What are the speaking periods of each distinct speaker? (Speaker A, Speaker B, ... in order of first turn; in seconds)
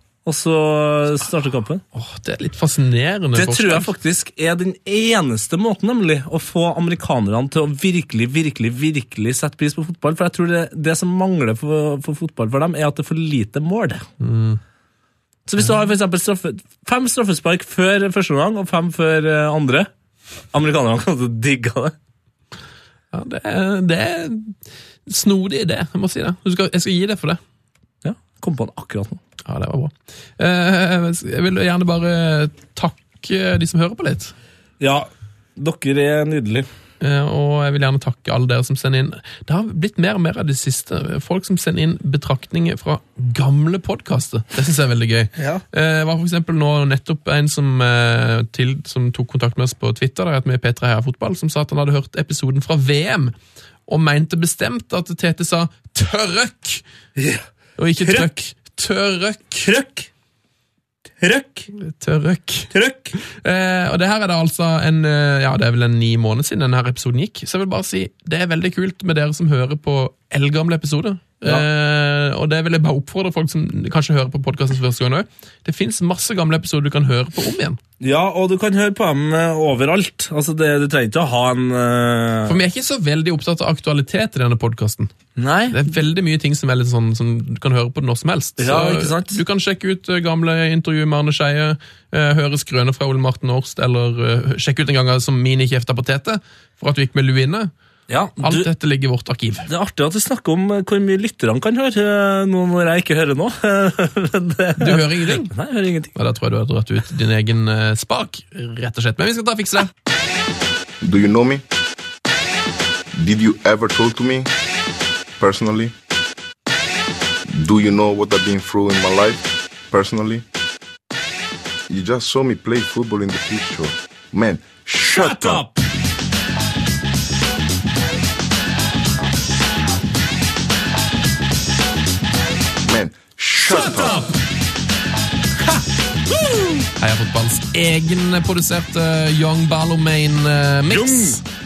Speaker A: 0.2-1.8, 3.3-14.1, 15.5-19.9, 20.5-21.9, 28.0-29.2, 34.8-36.7, 45.4-45.6, 57.2-57.5, 58.0-58.3, 59.6-60.1, 61.2-61.7, 62.7-63.2, 78.0-82.6, 85.4-85.9, 88.6-89.4, 98.1-98.7, 99.7-106.1, 125.0-125.8, 133.7-134.3, 136.3-136.9, 140.9-141.4
Speaker B: 1.9-3.9, 14.2-14.6, 23.1-24.6, 25.1-27.4, 29.4-34.3, 37.0-53.4, 53.9-56.8, 57.8-59.7, 61.8-77.8, 82.5-85.1, 85.7-97.7, 98.4-99.7, 104.8-105.5, 106.2-109.9, 137.0-141.4
Speaker C: 111.0-111.6, 113.1-114.5, 115.4-115.9, 117.5-120.4, 121.9-125.6, 132.8-134.2